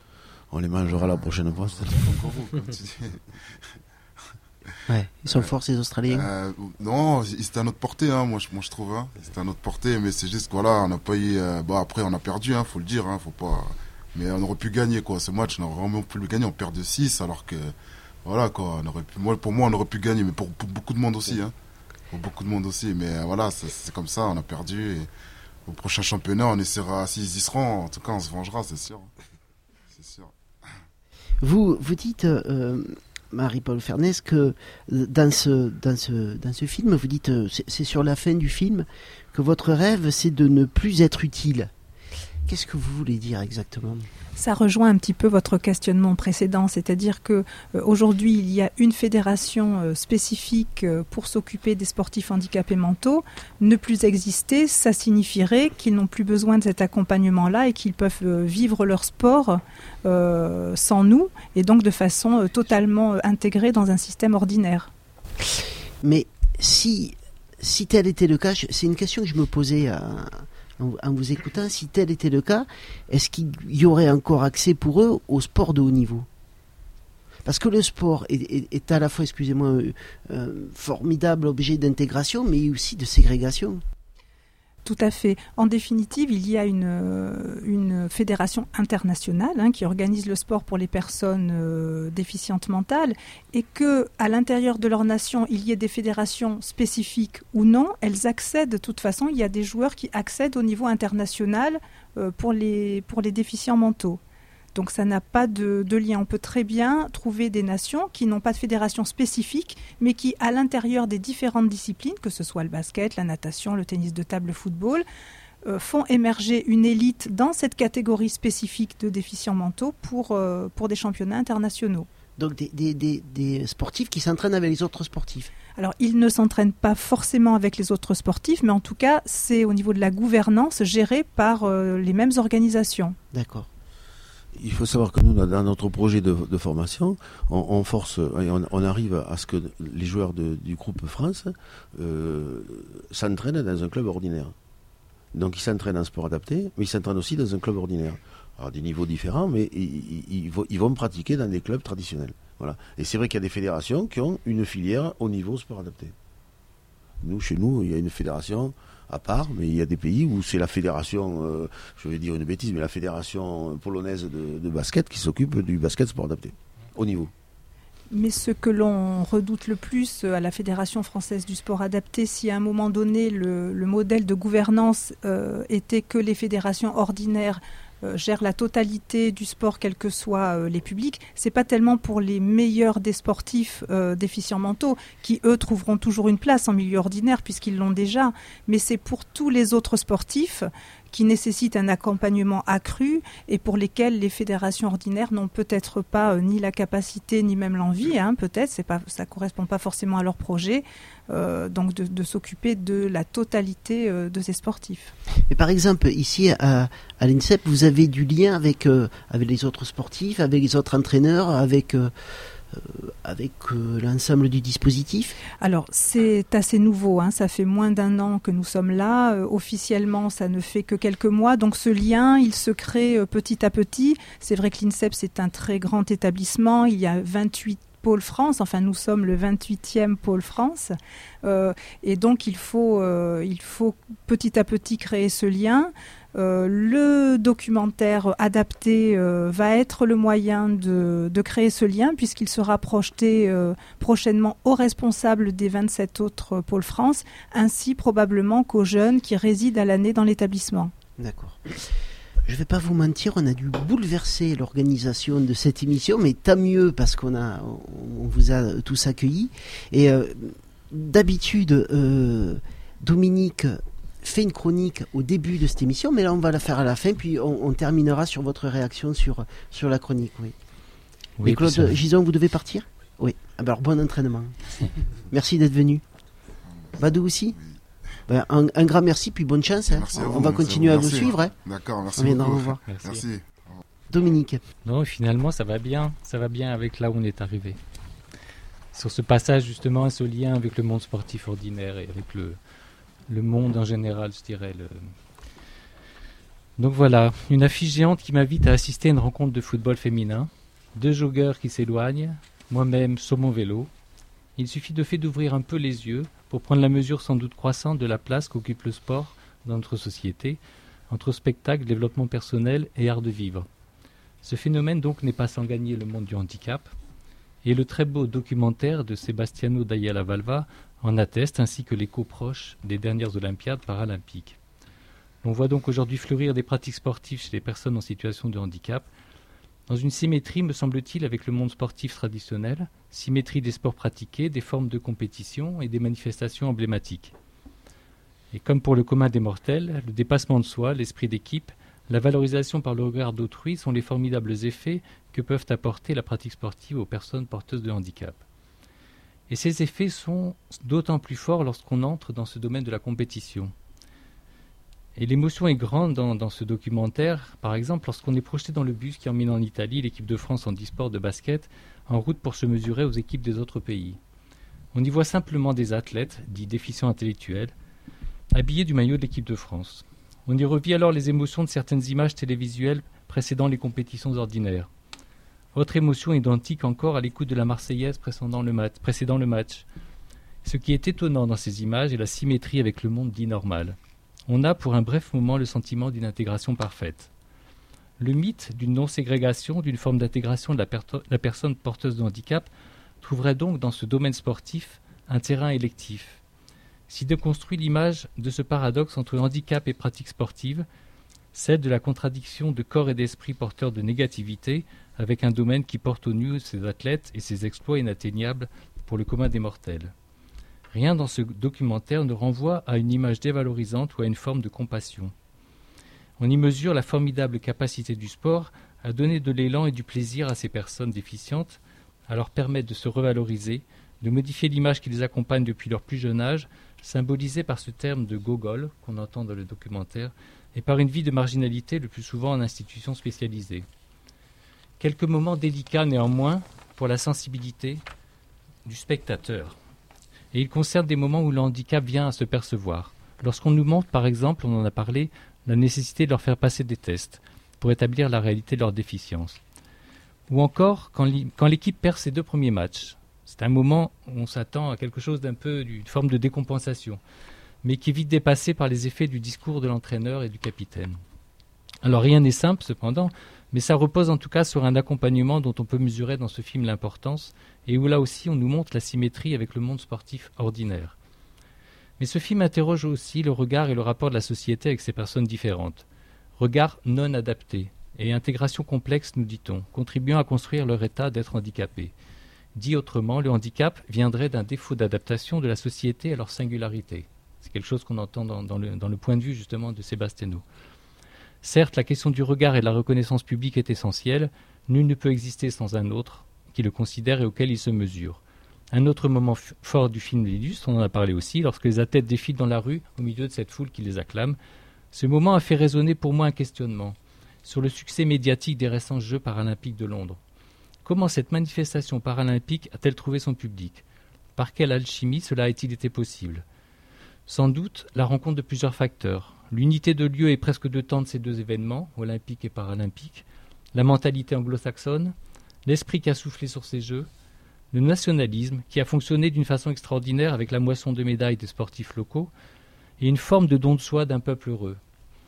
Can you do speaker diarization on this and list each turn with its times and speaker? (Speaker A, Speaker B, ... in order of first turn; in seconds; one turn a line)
Speaker A: 0.5-2.1
Speaker B: 0.9-3.6
Speaker C: 4.9-6.3
Speaker B: 6.1-17.7
Speaker B: 18.2-21.5
Speaker B: 22.1-25.1
Speaker B: 25.7-29.1
Speaker B: 29.9-30.3
Speaker C: 31.4-41.7
Speaker C: 42.5-44.1
Speaker D: 44.4-64.9
Speaker C: 65.5-76.3
Speaker C: 77.5-83.8
Speaker D: 84.8-104.2
Speaker D: 104.8-115.0
Speaker D: 115.7-122.1
Speaker C: 122.4-125.5
Speaker D: 125.8-133.2
Speaker C: 133.3-133.7
Speaker A: 134.6-144.5
Speaker A: 145.3-156.1
Speaker A: 157.2-167.3
Speaker D: 168.1-205.2
Speaker C: 205.5-212.1
Speaker C: 212.7-215.4
Speaker D: 215.6-250.9
Speaker C: 251.2-251.9
Speaker C: 252.5-270.6
Speaker E: 271.4-272.0
Speaker C: 271.4-276.0
Speaker B: 276.8-277.8
Speaker C: 277.0-277.6
Speaker C: 278.3-281.5
Speaker B: 279.9-283.8
Speaker C: 282.2-282.8
Speaker E: 282.9-283.2
Speaker C: 284.1-284.6
Speaker E: 284.9-287.8
Speaker E: 288.9-292.6
Speaker E: 293.3-295.1
Speaker E: 296.8-303.9
Speaker E: 304.6-313.7
Speaker E: 314.4-316.9
Speaker E: 317.6-324.6
Speaker E: 325.4-329.1
Speaker E: 329.9-337.3
Speaker E: 338.5-348.4
Speaker E: 349.5-353.7
Speaker E: 355.2-364.2
Speaker E: 364.9-367.7
Speaker E: 368.5-374.9
Speaker E: 375.7-379.9
Speaker E: 380.6-384.0
Speaker E: 384.5-387.3
Speaker E: 388.2-392.7
Speaker E: 393.2-396.4
Speaker E: 397.1-400.9
Speaker E: 401.5-410.1
Speaker E: 410.9-415.3
Speaker E: 416.4-433.9
Speaker E: 435.0-438.0
Speaker E: 438.9-439.8
Speaker E: 440.5-449.6
Speaker E: 450.5-457.2
Speaker E: 457.8-461.2
Speaker E: 462.0-471.1
Speaker E: 472.2-476.1
Speaker E: 476.6-482.1
Speaker E: 482.8-490.6
Speaker E: 491.6-498.4
Speaker E: 498.9-504.6
Speaker E: 505.1-510.4
Speaker E: 511.0-514.0
Speaker E: 514.6-516.6
Speaker E: 517.5-525.3
Speaker E: 525.9-527.3
Speaker E: 527.9-532.5
Speaker E: 533.2-535.0